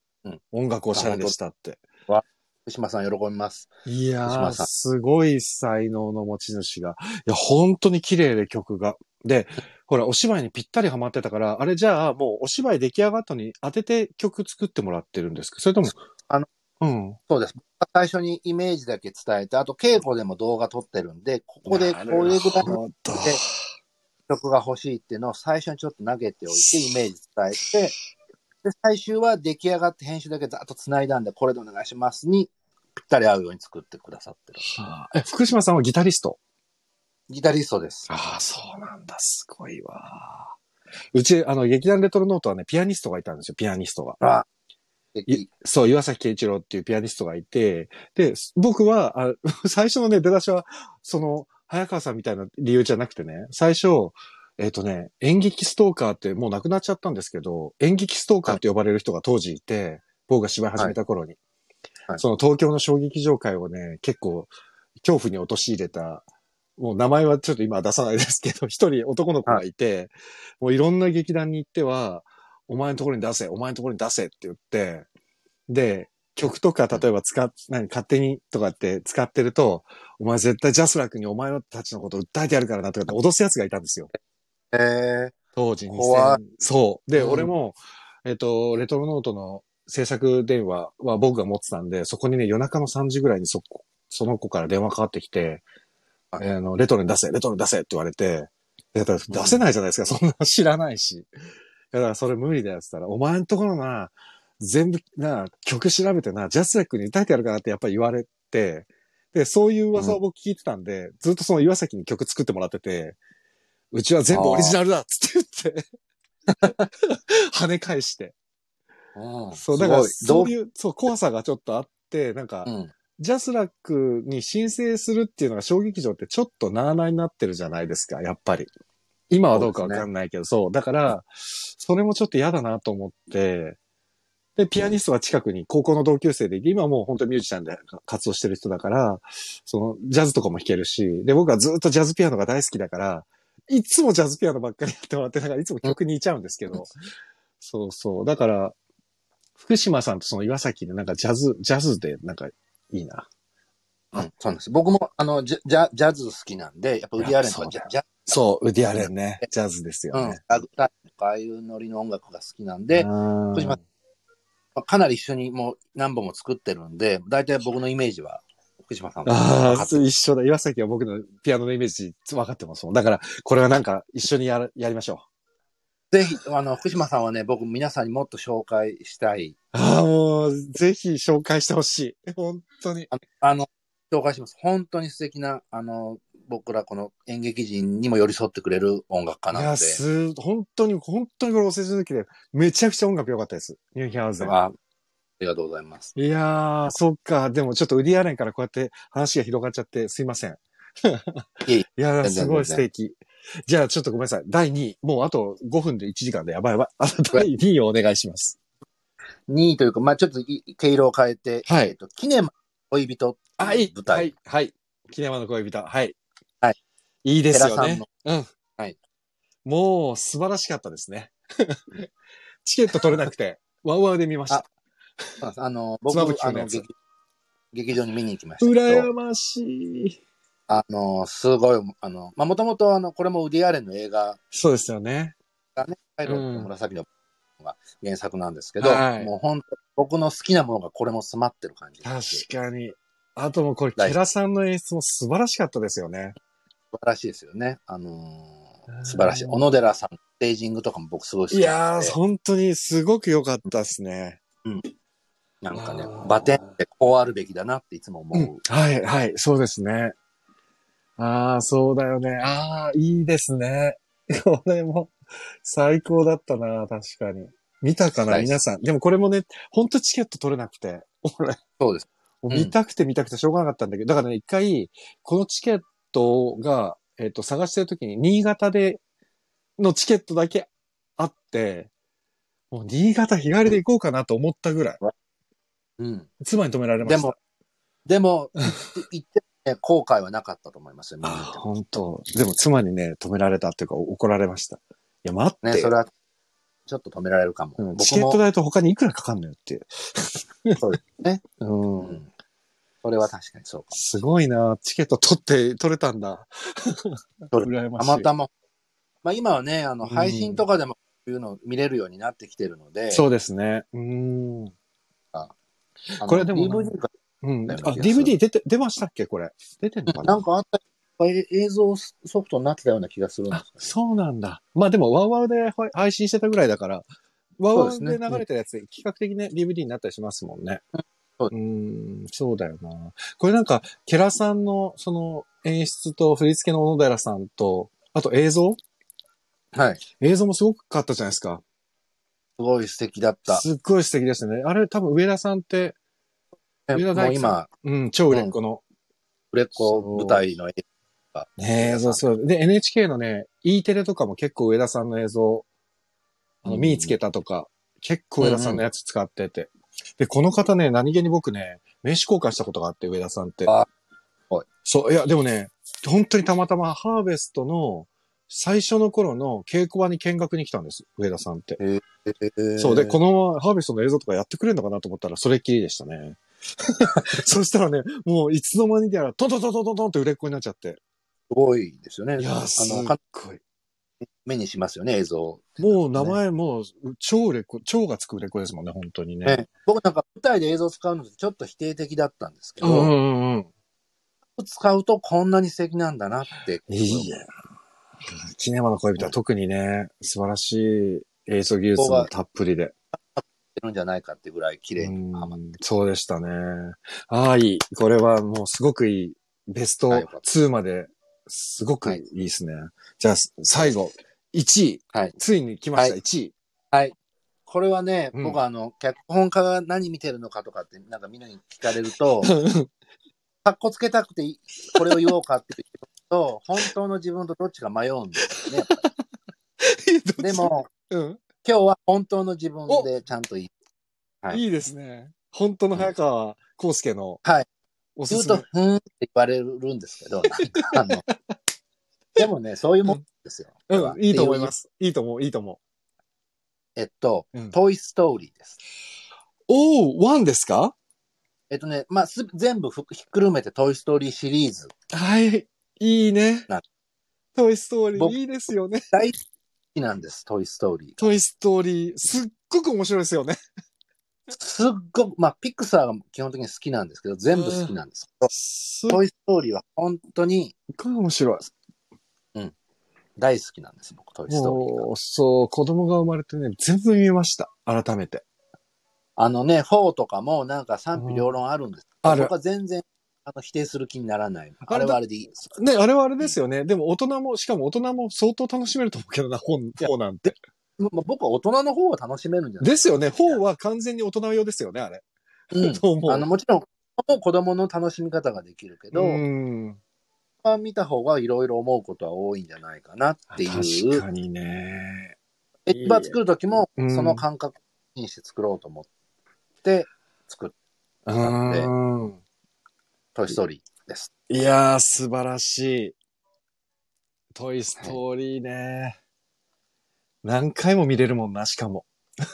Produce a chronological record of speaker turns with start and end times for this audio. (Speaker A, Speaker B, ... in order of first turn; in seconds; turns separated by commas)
Speaker A: 0.5-1.8, Speaker B: 0.9-1.3, Speaker B: 2.1-3.7, Speaker A: 3.9-15.9, Speaker B: 4.2-4.7, Speaker A: 16.8-17.2, Speaker B: 17.3-23.4, Speaker A: 21.6-23.6, Speaker B: 24.3-27.9, Speaker A: 26.5-26.9, Speaker B: 28.6-34.7, Speaker A: 34.7-36.4, Speaker B: 37.3-38.1, Speaker A: 38.1-40.5, Speaker A: 41.1-44.2, Speaker B: 44.2-44.5, Speaker B: 45.1-45.5, Speaker A: 45.3-61.4, Speaker A: 62.2-66.2, Speaker A: 66.8-75.1, Speaker A: 75.7-84.1, Speaker B: 84.7-85.3, Speaker A: 85.5-95.6, Speaker B: 85.9-86.4, Speaker B: 87.2-87.5, Speaker A: 96.4-101.3, Speaker B: 99.3-99.6, Speaker A: 101.9-113.2, Speaker A: 113.9-115.8, Speaker B: 114.3-114.8, Speaker B: 116.6-116.8, Speaker A: 116.6-118.3, Speaker B: 119.2-120.5, Speaker A: 119.5-128.7, Speaker B: 122.7-122.9, Speaker A: 129.3-133.8, Speaker B: 129.5-130.1, Speaker A: 134.6-146.9, Speaker A: 147.6-148.8, Speaker A: 149.6-153.3, Speaker B: 154.1-158.3, Speaker A: 157.2-160.4, Speaker B: 160.1-163.8, Speaker A: 162.9-163.8, Speaker B: 164.8-170.0, Speaker A: 169.2-175.2, Speaker B: 176.1-179.6, Speaker A: 179.7-183.1, Speaker B: 183.1-190.0, Speaker A: 189.5-194.5, Speaker B: 194.4-194.7, Speaker B: 195.4-196.1, Speaker A: 196.1-208.6, Speaker B: 201.6-202.8, Speaker B: 209.5-214.3, Speaker A: 211.7-211.9, Speaker A: 213.6-216.2, Speaker A: 217.2-218.5, Speaker B: 217.5-218.0, Speaker A: 219.6-222.1, Speaker A: 222.6-224.7, Speaker B: 222.9-223.3, Speaker B: 225.4-226.9, Speaker A: 226.1-226.8, Speaker B: 227.7-229.1, Speaker A: 228.6-230.2, Speaker B: 230.7-234.4, Speaker A: 234.5-235.3, Speaker B: 235.8-237.1, Speaker A: 236.2-236.7, Speaker B: 237.6-242.4, Speaker A: 238.8-239.3, Speaker A: 242.0-246.3, Speaker B: 246.9-252.2, Speaker A: 248.9-249.6, Speaker A: 251.5-254.4, Speaker B: 255.6-258.6, Speaker A: 255.7-256.7, Speaker A: 258.3-260.1, Speaker A: 261.2-271.6, Speaker B: 268.3-268.6, Speaker B: 271.8-272.7, Speaker A: 272.4-279.0, Speaker A: 279.8-281.9, Speaker A: 282.7-285.0, Speaker B: 286.0-286.3, Speaker A: 286.4-287.3, Speaker B: 287.0-287.3, Speaker B: 288.1-291.6, Speaker A: 291.2-295.9, Speaker B: 295.6-296.1, Speaker B: 296.9-298.4, Speaker A: 297.8-300.8, Speaker B: 300.8-301.4, Speaker A: 301.6-302.2, Speaker B: 302.0-302.3, Speaker B: 303.0-304.2, Speaker A: 303.9-308.3, Speaker B: 307.5-308.5, Speaker B: 309.2-313.2, Speaker A: 310.0-310.6, Speaker A: 313.1-314.7, Speaker A: 316.1-320.4, Speaker B: 316.2-317.1, Speaker B: 317.7-318.3, Speaker B: 320.1-323.8, Speaker A: 323.5-327.1, Speaker A: 327.6-330.8, Speaker B: 327.7-328.4, Speaker A: 331.5-338.8, Speaker B: 339.7-340.0, Speaker A: 340.2-341.6, Speaker B: 342.6-343.6, Speaker A: 343.5-346.0, Speaker B: 346.9-347.7, Speaker A: 346.9-348.8, Speaker B: 349.5-350.8, Speaker A: 349.8-350.4, Speaker B: 351.3-352.2, Speaker A: 351.6-355.6, Speaker A: 356.6-363.7, Speaker B: 356.6-357.1, Speaker B: 358.4-358.8, Speaker A: 364.8-371.8, Speaker B: 371.8-373.2, Speaker A: 372.8-381.0, Speaker B: 381.5-383.2, Speaker A: 382.4-383.6, Speaker B: 384.4-386.4, Speaker A: 385.8-389.6, Speaker B: 389.4-393.1, Speaker A: 392.8-393.7, Speaker B: 394.6-397.3, Speaker A: 396.9-397.5, Speaker A: 398.2-402.9, Speaker B: 402.0-402.3, Speaker B: 403.1-405.6, Speaker A: 405.0-416.5, Speaker B: 410.1-410.4, Speaker B: 417.7-422.5, Speaker A: 422.4-422.9, Speaker B: 423.6-429.0, Speaker A: 424.9-425.3, Speaker A: 428.6-429.1, Speaker A: 429.8-431.4, Speaker B: 430.4-430.9, Speaker B: 431.6-433.7, Speaker A: 434.5-437.4, Speaker A: 438.1-438.6, Speaker B: 438.3-441.2, Speaker A: 440.6-441.3, Speaker B: 442.4-444.7, Speaker A: 443.9-445.8, Speaker B: 446.9-448.8, Speaker A: 449.7-450.9, Speaker B: 451.7-454.9, Speaker A: 455.1-456.7, Speaker A: 457.5-459.0, Speaker B: 459.1-459.4, Speaker B: 459.9-461.2, Speaker A: 461.2-463.6, Speaker B: 464.5-468.5, Speaker A: 467.5-467.9, Speaker A: 468.5-469.2, Speaker B: 469.1-470.8, Speaker A: 470.9-471.7, Speaker B: 473.4-475.0, Speaker A: 474.5-478.4, Speaker B: 479.4-485.7, Speaker A: 481.1-481.4, Speaker A: 482.2-482.5, Speaker A: 484.9-485.2, Speaker A: 485.7-490.6, Speaker B: 491.0-493.6, Speaker A: 492.8-495.2, Speaker B: 495.7-499.4, Speaker A: 495.7-496.5, Speaker A: 499.1-500.0, Speaker B: 500.6-504.2, Speaker A: 503.5-505.4, Speaker B: 505.9-509.1, Speaker A: 505.9-506.4, Speaker A: 507.0-507.4, Speaker B: 509.8-510.7, Speaker A: 511.2-512.4, Speaker B: 511.4-511.9, Speaker B: 513.3-514.3, Speaker A: 514.5-516.1, Speaker A: 517.5-519.2, Speaker A: 520.4-522.1